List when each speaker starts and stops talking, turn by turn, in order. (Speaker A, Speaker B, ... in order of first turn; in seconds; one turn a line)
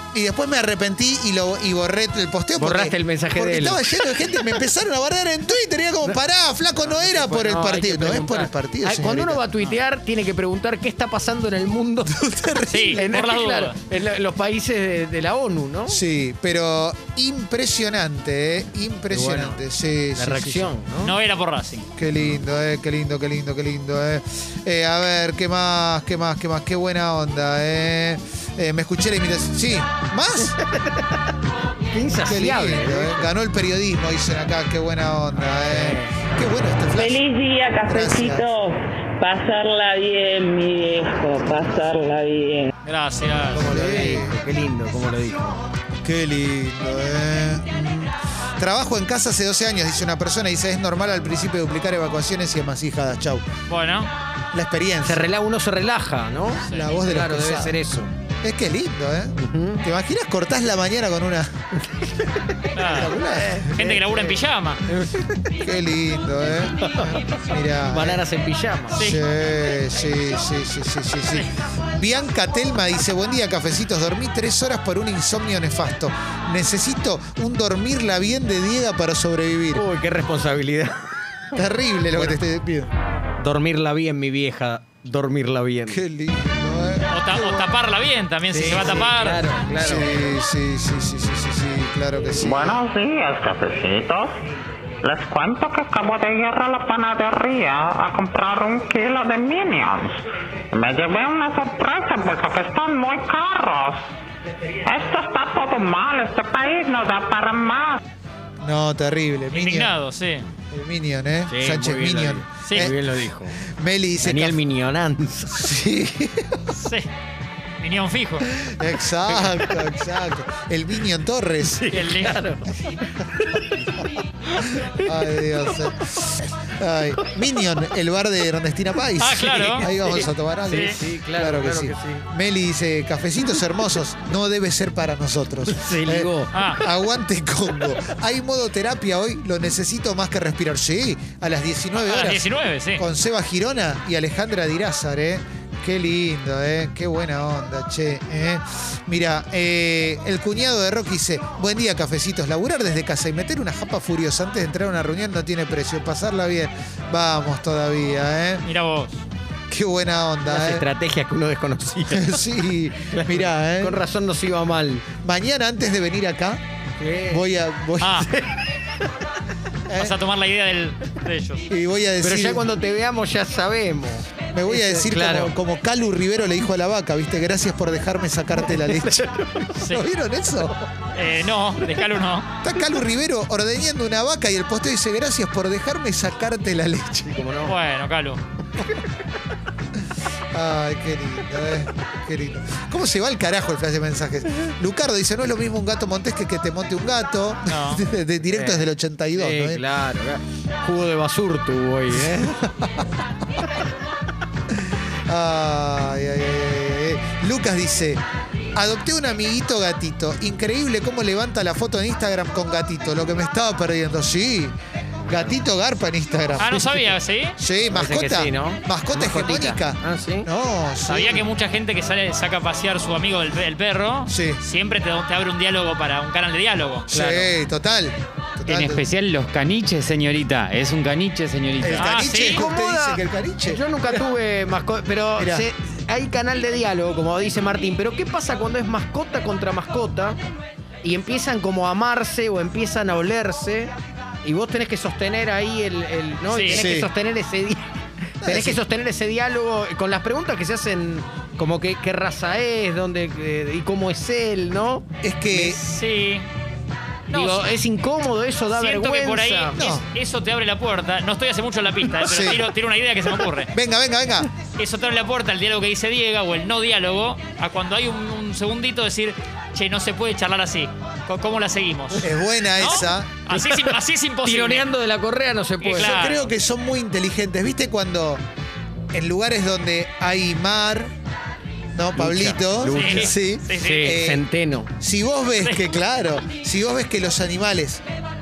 Speaker A: 0.1-9.4
Speaker B: 2.6-4.5
Speaker B: 6.8-12.1
Speaker A: 12.1-13.1
Speaker C: 12.7-13.7
Speaker B: 12.9-16.0
Speaker A: 15.9-20.8
Speaker B: 19.1-19.6
Speaker B: 20.2-21.1
Speaker C: 21.0-21.8
Speaker A: 21.9-30.6
Speaker B: 30.7-31.0
Speaker B: 31.9-33.3
Speaker A: 32.1-37.2
Speaker B: 35.5-36.3
Speaker D: 37.0-42.7
Speaker A: 37.9-38.5
Speaker C: 42.8-43.6
Speaker B: 43.5-45.6
Speaker A: 43.6-44.4
Speaker A: 46.0-53.5
Speaker C: 53.7-54.1
Speaker A: 54.5-55.3
Speaker B: 55.0-58.1
Speaker C: 56.7-56.9
Speaker A: 56.7-57.8
Speaker A: 58.4-61.6
Speaker B: 59.4-59.8
Speaker B: 62.0-65.5
Speaker C: 62.7-63.2
Speaker A: 62.9-63.6
Speaker C: 63.7-64.8
Speaker A: 65.6-68.2
Speaker B: 67.8-69.0
Speaker C: 68.9-69.2
Speaker A: 69.0-79.8
Speaker B: 79.7-80.9
Speaker A: 81.5-82.9
Speaker B: 82.1-82.4
Speaker B: 83.4-86.0
Speaker A: 85.9-87.7
Speaker C: 87.1-89.5
Speaker B: 88.5-90.1
Speaker A: 88.7-89.2
Speaker A: 89.7-92.8
Speaker E: 92.4-94.3
Speaker E: 95.0-100.2
Speaker E: 100.7-104.0
Speaker E: 104.8-108.0
Speaker A: 108.6-109.9
Speaker C: 109.5-110.5
Speaker A: 110.7-112.9
Speaker B: 111.5-113.5
Speaker C: 112.6-112.9
Speaker A: 113.7-114.6
Speaker B: 114.2-115.6
Speaker A: 115.5-116.6
Speaker C: 116.7-117.1
Speaker C: 117.8-118.5
Speaker A: 118.5-121.8
Speaker B: 119.5-119.8
Speaker B: 121.7-122.6
Speaker C: 121.9-122.4
Speaker B: 123.5-123.8
Speaker A: 124.8-158.6
Speaker C: 129.2-129.9
Speaker B: 129.4-132.2
Speaker C: 130.7-130.9
Speaker B: 135.7-136.5
Speaker C: 136.5-136.8
Speaker C: 141.9-143.0
Speaker C: 158.6-159.2
Speaker A: 159.7-160.9
Speaker B: 160.4-162.5
Speaker A: 162.1-164.0
Speaker B: 163.1-165.1
Speaker A: 165.1-166.6
Speaker B: 167.0-167.4
Speaker A: 167.3-168.2
Speaker C: 168.0-168.3
Speaker B: 168.2-168.5
Speaker A: 169.9-170.2
Speaker C: 170.0-171.7
Speaker A: 171.7-172.7
Speaker B: 172.2-175.5
Speaker A: 174.5-179.3
Speaker B: 178.6-179.8
Speaker C: 179.8-180.1
Speaker A: 179.9-180.9
Speaker C: 181.1-182.5
Speaker A: 182.6-187.4
Speaker B: 187.3-187.7
Speaker C: 187.6-188.4
Speaker A: 190.5-199.8
Speaker C: 197.7-198.1
Speaker B: 198.4-202.5
Speaker A: 202.2-203.0
Speaker A: 205.3-208.2
Speaker A: 208.7-214.7
Speaker B: 215.3-215.6
Speaker A: 215.3-217.1
Speaker C: 216.6-217.5
Speaker A: 217.6-221.4
Speaker B: 217.9-220.5
Speaker C: 221.1-227.1
Speaker A: 224.3-224.6
Speaker A: 227.1-229.0
Speaker B: 227.1-227.5
Speaker F: 228.7-232.5
Speaker A: 231.8-234.2
Speaker C: 231.8-232.6
Speaker B: 232.4-240.3
Speaker A: 235.4-235.7
Speaker B: 241.0-243.9
Speaker B: 244.4-247.8
Speaker C: 246.5-246.8
Speaker A: 246.7-247.1
Speaker A: 248.4-248.8
Speaker B: 248.4-255.7
Speaker A: 255.2-255.8
Speaker C: 255.6-256.4
Speaker C: 257.3-257.7
Speaker B: 257.3-259.8
Speaker C: 258.7-263.7
Speaker A: 259.7-260.0
Speaker A: 262.2-262.6
Speaker A: 263.7-264.5
Speaker C: 264.8-274.9
Speaker A: 272.2-273.4
Speaker B: 274.4-276.2
Speaker C: 275.8-276.5
Speaker A: 275.9-278.4
Speaker A: 279.1-281.1
Speaker A: 281.9-284.4
Speaker B: 282.1-284.9
Speaker C: 282.9-284.1
Speaker A: 285.0-288.0